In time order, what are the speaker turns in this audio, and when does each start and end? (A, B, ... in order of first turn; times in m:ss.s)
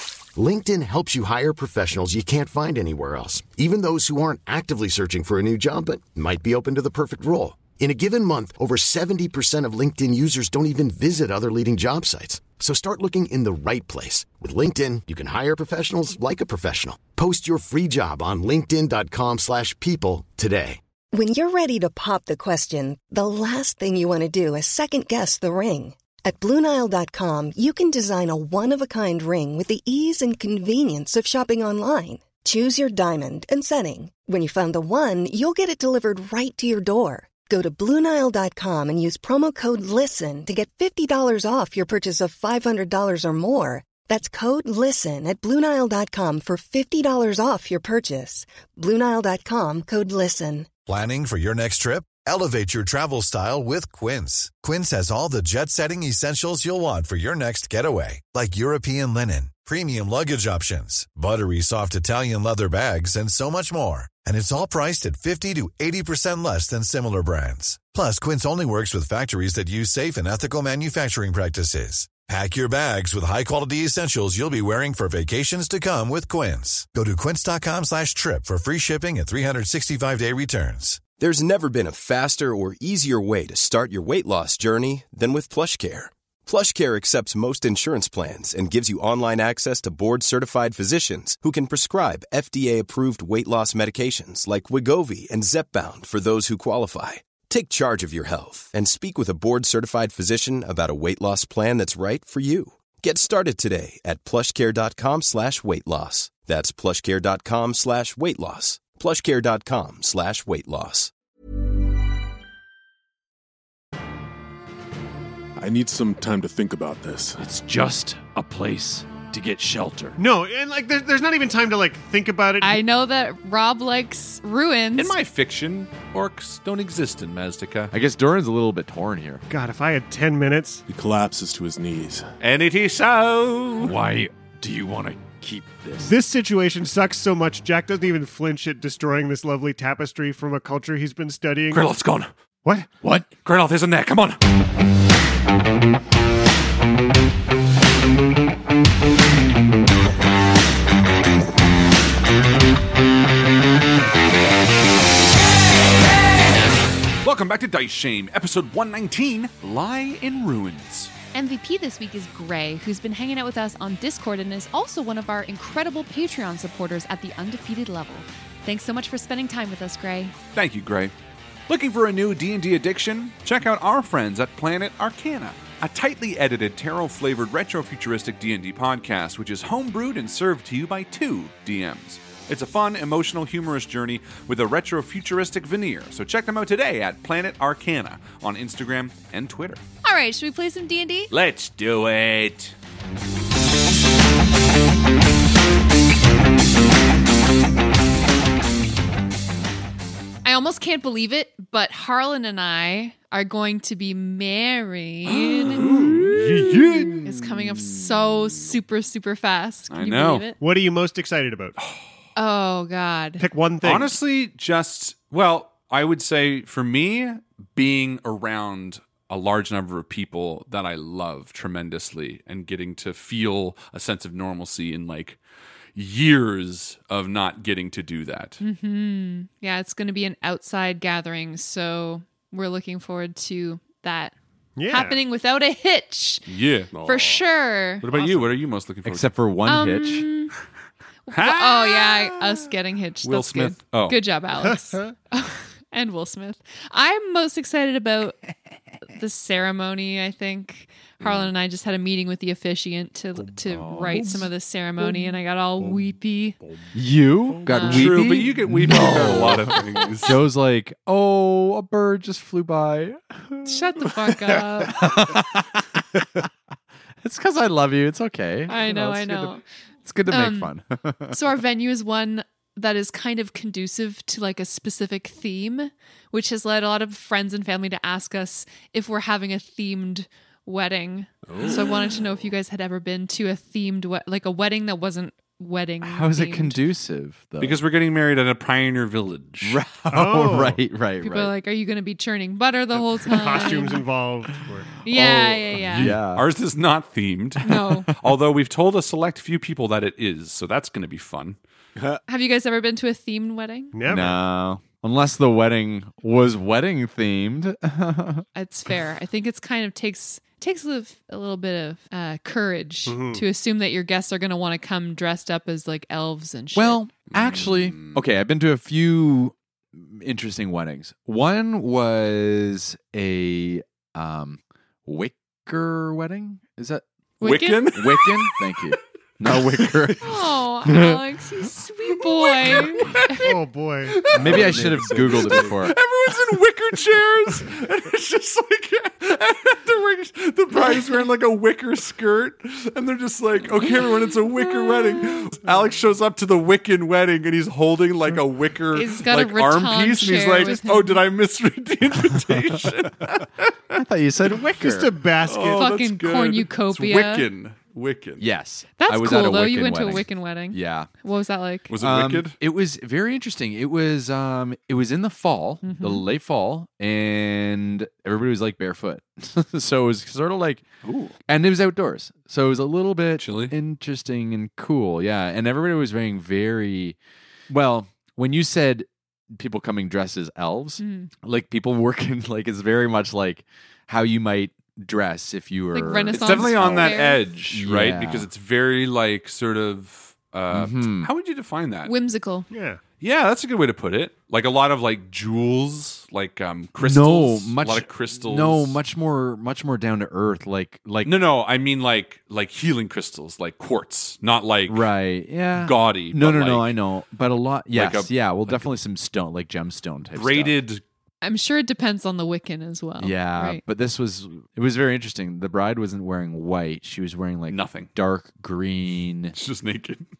0:00.3-0:20.8 A
0:21.1-0:50.7 B
0:50.9-1:21.1 C
1:21.1-1:51.1 D
1:55.6-1:57.4 E
1:57.4-2:00.2 F
2:00.2-2:02.8 G
2:02.6-2:05.1 H
2:05.0-2:07.9 I
2:07.9-2:09.4 F
2:09.5-2:10.8 G
2:10.9-2:12.2 E
2:12.4-2:14.0 I
2:13.8-2:16.1 F
2:16.0-2:21.9 G
2:21.7-2:22.3 I
2:22.6-2:22.9 G
2:23.0-2:23.3 F
2:23.4-2:24.4 I
2:37.2-2:41.1 I
2:41.3-2:50.3 H
2:50.5-2:51.1 I
2:51.7-3:09.8 I
3:10.0-3:11.3 H
3:11.3-3:12.7 I
3:20.4-3:25.9 H
3:25.3-3:27.3 I
3:25.9-3:26.2 G
3:26.3-3:27.3 E
3:27.2-3:30.6 H
3:29.9-3:30.5 I
3:30.6-3:31.8 G
3:32.4-3:33.4 H
3:33.4-3:34.1 G
3:33.8-3:45.4 I
3:45.9-3:48.6 I
3:48.6-3:54.3 H
3:54.8-3:55.2 G
3:54.9-3:56.5 H
3:56.5-3:56.9 I
3:56.9-3:57.4 E
3:57.0-3:58.1 H
3:58.0-3:59.3 I
3:58.1-3:58.4 E
3:59.0-4:00.2 F
3:59.7-4:00.5 H
4:01.3-4:08.4 H
4:01.3-4:02.6 I
4:03.2-4:04.2 I
4:09.0-4:16.6 H
4:13.7-4:14.4 F
4:16.6-4:16.9 E
4:16.9-4:23.7 F
4:17.6-4:18.1 H
4:17.9-4:20.4 I
4:23.6-4:25.1 H
4:24.8-4:26.5 F
4:27.2-4:31.4 F
4:28.7-4:29.6 H
4:30.3-4:30.7 H
4:31.3-4:46.8 H
4:41.4-4:42.4 E
4:46.0-4:47.8 F
4:47.6-4:49.8 I
4:49.6-4:51.5 F
4:50.1-4:50.8 G
4:51.2-4:54.0 H
4:53.2-4:54.9 G
4:55.0-4:56.1 H
4:55.8-4:56.5 F
4:55.9-5:01.6 I
4:57.6-4:58.1 H
5:02.0-5:02.2 E
5:02.3-5:04.0 H
5:03.9-5:04.4 G
5:04.0-5:08.4 F
5:08.5-5:17.0 H
5:13.1-5:13.4 G
5:16.7-5:31.2 F
5:17.3-5:18.2 E
5:27.4-5:28.0 H
5:27.4-5:28.8 I
5:29.5-5:30.2 I
5:30.2-5:33.5 H
5:32.3-5:33.5 I
5:33.4-5:34.3 G
5:34.1-5:53.7 I
5:34.3-5:36.0 E
5:34.3-5:36.0 F
5:48.9-5:51.2 H
5:53.9-5:55.2 F
5:54.8-5:55.9 G
5:55.4-5:58.4 I
5:55.6-5:57.5 H
5:58.4-6:01.1 F
5:59.0-6:01.9 H
6:01.9-6:02.5 I
6:02.0-6:10.8 F
6:05.8-6:06.2 H
6:11.0-6:11.4 I
6:11.5-6:17.2 F
6:13.4-6:13.7 I
6:17.7-6:28.5 F
6:21.0-6:21.3 H
6:25.9-6:27.4 H
6:26.3-6:32.1 I
6:30.7-6:31.3 F
6:32.0-6:32.7 H
6:32.7-6:33.0 G
6:33.2-6:39.0 I
6:37.0-6:41.3 F
6:41.2-6:45.1 I
6:44.9-6:50.8 F
6:45.8-6:46.9 I
6:47.9-6:48.9 I
6:50.4-6:51.0 I
6:51.4-6:53.8 H
6:53.2-6:59.6 F
6:57.7-6:58.1 I
6:59.5-7:00.2 I